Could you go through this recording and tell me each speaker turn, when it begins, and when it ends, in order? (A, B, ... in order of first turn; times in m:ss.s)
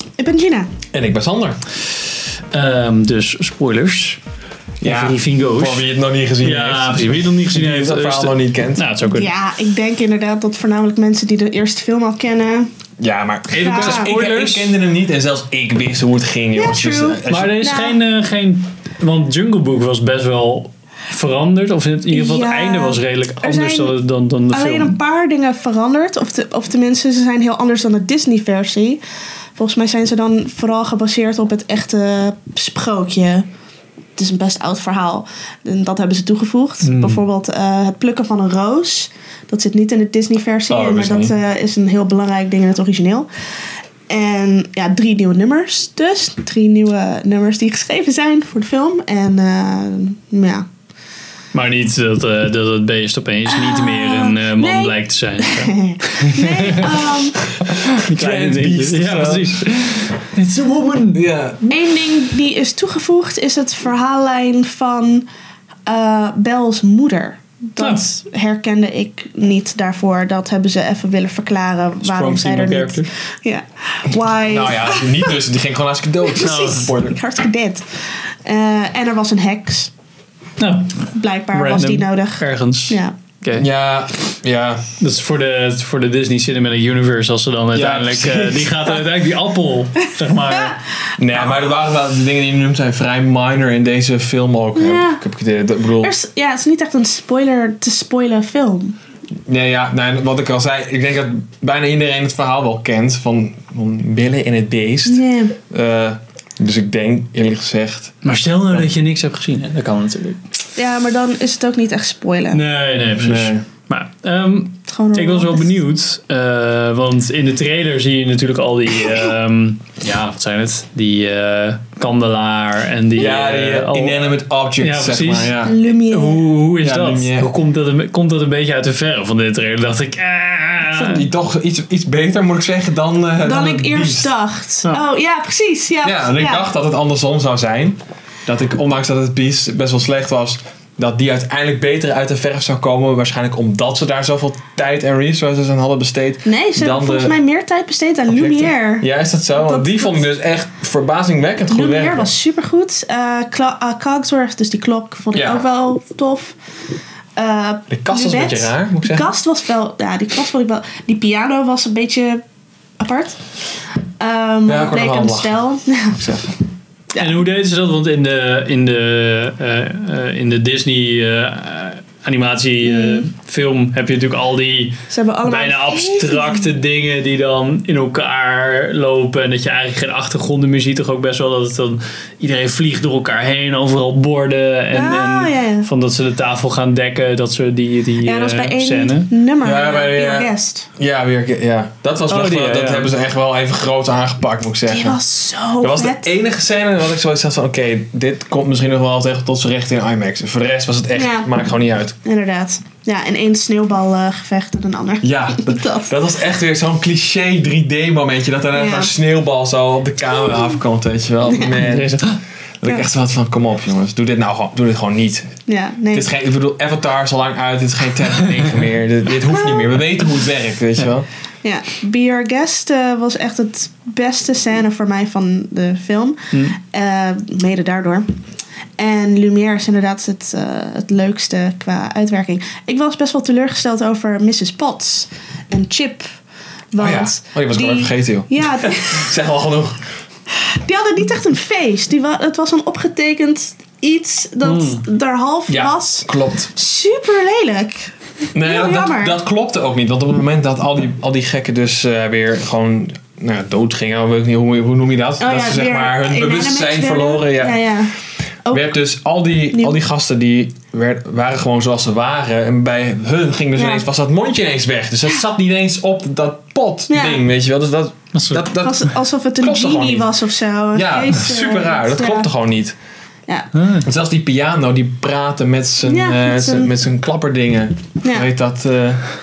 0:00.2-0:00.7 A
0:00.9-0:01.6 B
0:02.5-0:04.2 C
0:04.8-0:08.8 B
0:04.8-0:05.9 C
0:06.4-0:09.3 C
0:09.1-0:12.7 A
0:13.0-0:17.6 B
0:13.5-0:14.8 C
0:13.6-0:14.1 A
0:16.5-0:18.0 A
0:17.3-0:25.0 C
0:22.1-0:24.0 A
0:24.5-0:29.0 A
0:29.6-0:33.4 A
0:34.2-0:43.3 A
0:36.8-0:37.2 C
0:40.7-0:41.3 B
0:44.1-0:50.6 A
0:51.5-0:57.1 C
0:53.5-0:57.5 A
0:57.6-0:59.6 B
0:57.8-1:01.2 C
1:01.1-1:01.6 B
1:01.7-1:05.2 A
1:05.8-1:15.4 A
1:12.0-1:13.1 C
1:14.4-1:17.2 B
1:16.2-1:19.9 A
1:16.4-1:17.0 C
1:20.6-1:23.7 C
1:21.1-1:23.2 A
1:23.5-1:24.8 B
1:25.0-1:30.8 C
1:27.7-1:29.0 B
1:31.2-1:36.1 B
1:34.7-1:35.2 A
1:36.0-1:39.0 A
1:39.5-1:48.1 B
1:45.0-1:45.6 A
1:48.2-1:50.4 C
1:50.7-1:52.6 A
1:52.5-2:11.2 C
1:53.0-1:53.6 B
1:54.9-1:55.8 A
2:03.1-2:05.7 B
2:03.2-2:03.4 A
2:05.6-2:06.5 A
2:06.8-2:07.5 B
2:10.9-2:14.3 B
2:13.4-2:16.6 A
2:16.0-2:27.4 B
2:26.4-2:30.2 A
2:28.3-2:32.3 B
2:31.7-2:36.6 A
2:35.3-2:35.6 B
2:37.4-2:42.4 A
2:37.9-2:39.3 B
2:43.0-2:43.4 A
2:44.2-2:46.3 A
2:44.7-2:45.6 B
2:46.1-2:46.5 B
2:47.1-2:47.4 A
2:47.2-3:09.3 C
2:52.8-2:53.2 A
2:55.1-2:56.7 A
3:04.9-3:05.9 A
3:08.2-3:10.9 A
3:09.6-3:15.2 B
3:12.3-3:13.1 C
3:14.9-3:16.3 A
3:15.8-3:22.2 B
3:21.1-3:21.5 A
3:22.2-3:26.1 A
3:25.2-3:32.3 B
3:28.7-3:29.1 A
3:31.5-3:31.8 A
3:31.8-3:32.4 C
3:32.8-3:35.6 B
3:35.7-3:36.3 A
3:36.1-3:41.3 B
3:39.5-3:39.8 A
3:41.6-3:48.3 A
3:46.5-3:46.8 C
3:49.0-3:56.3 A
3:56.9-3:59.3 A
3:57.0-4:00.0 B
4:00.5-4:09.4 A
4:04.6-4:05.0 C
4:05.7-4:06.7 B
4:08.5-4:17.9 B
4:15.4-4:19.0 A
4:18.7-4:29.1 B
4:19.7-4:20.0 A
4:23.7-4:24.0 A
4:27.1-4:27.4 A
4:28.3-4:28.7 C
4:28.7-4:32.5 A
4:29.6-4:30.3 B
4:30.9-4:33.0 B
4:33.7-4:34.0 C
4:34.0-4:39.3 B
4:36.0-4:36.9 A
4:38.2-4:38.5 A